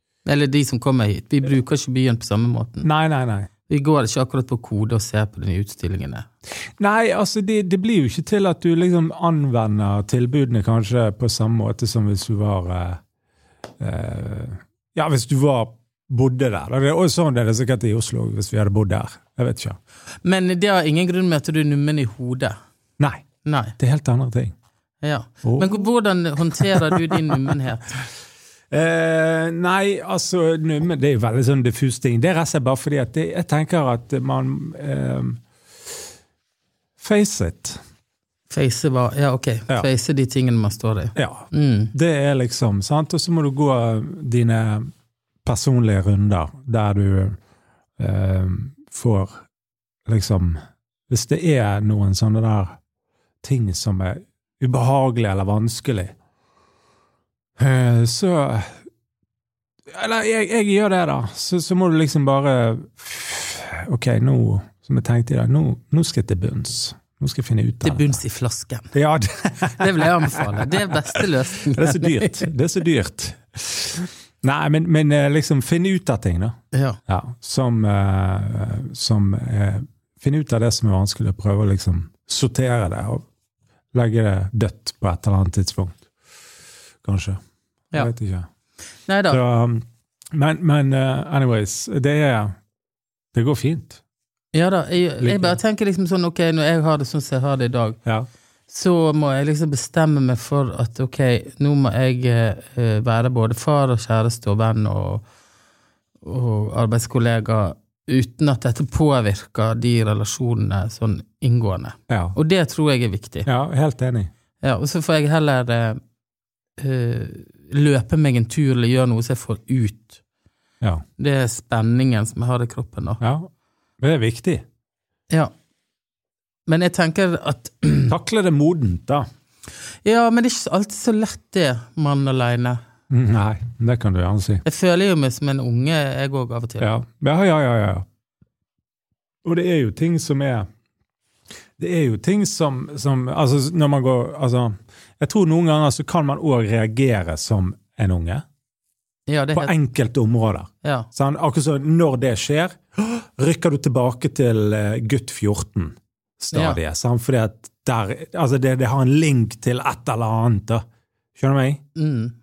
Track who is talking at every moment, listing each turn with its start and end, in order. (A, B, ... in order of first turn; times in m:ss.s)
0:00.2-0:02.9 A
0:02.8-0:03.5 B
0:03.7-0:06.2 A
0:06.8-0:13.0 B
0:13.8-0:19.8 B
0:20.2-0:22.6 A
0:23.0-0:23.2 B
0:23.4-0:23.8 A
0:23.8-0:24.5 B
0:25.0-0:28.0 A
0:25.4-0:25.9 B
0:26.5-0:27.0 B
0:28.7-0:35.4 B
0:37.0-0:37.8 B
0:38.5-0:41.9 A
0:41.2-0:44.9 B
0:45.4-0:47.4 B
0:48.0-0:49.4 B
0:50.1-0:52.8 B
0:53.4-0:56.1 B
0:57.6-0:58.7 B
0:59.9-1:08.1 B
1:07.8-1:08.9 A
1:08.9-1:16.5 B
1:09.8-1:12.4 A
1:16.7-1:17.0 A
1:17.1-1:23.2 B
1:23.9-1:26.0 B
1:27.0-1:27.4 B
1:27.9-1:28.4 B
1:29.1-1:29.4 A
1:29.3-1:32.5 B
1:33.3-1:34.0 B
1:34.5-1:38.0 A
1:35.2-1:35.6 B
1:38.7-1:45.2 A
1:46.2-1:53.5 A
1:52.1-1:52.4 B
1:53.4-1:54.3 B
1:54.6-1:56.0 A
1:56.8-2:00.2 A
2:01.2-2:03.2 A
2:03.2-2:03.5 B
2:04.0-2:04.6 B
2:06.7-2:08.2 A
2:08.1-2:09.2 B
2:10.0-2:12.8 A
2:13.1-2:14.6 B
2:14.6-2:16.9 A
2:16.8-2:18.0 B
2:19.4-2:20.7 B
2:21.8-2:28.4 B
2:29.3-2:29.7 A
2:29.5-2:40.8 B
2:30.8-2:31.1 A
2:36.5-2:36.8 A
2:41.4-2:41.8 B
2:42.0-2:42.3 A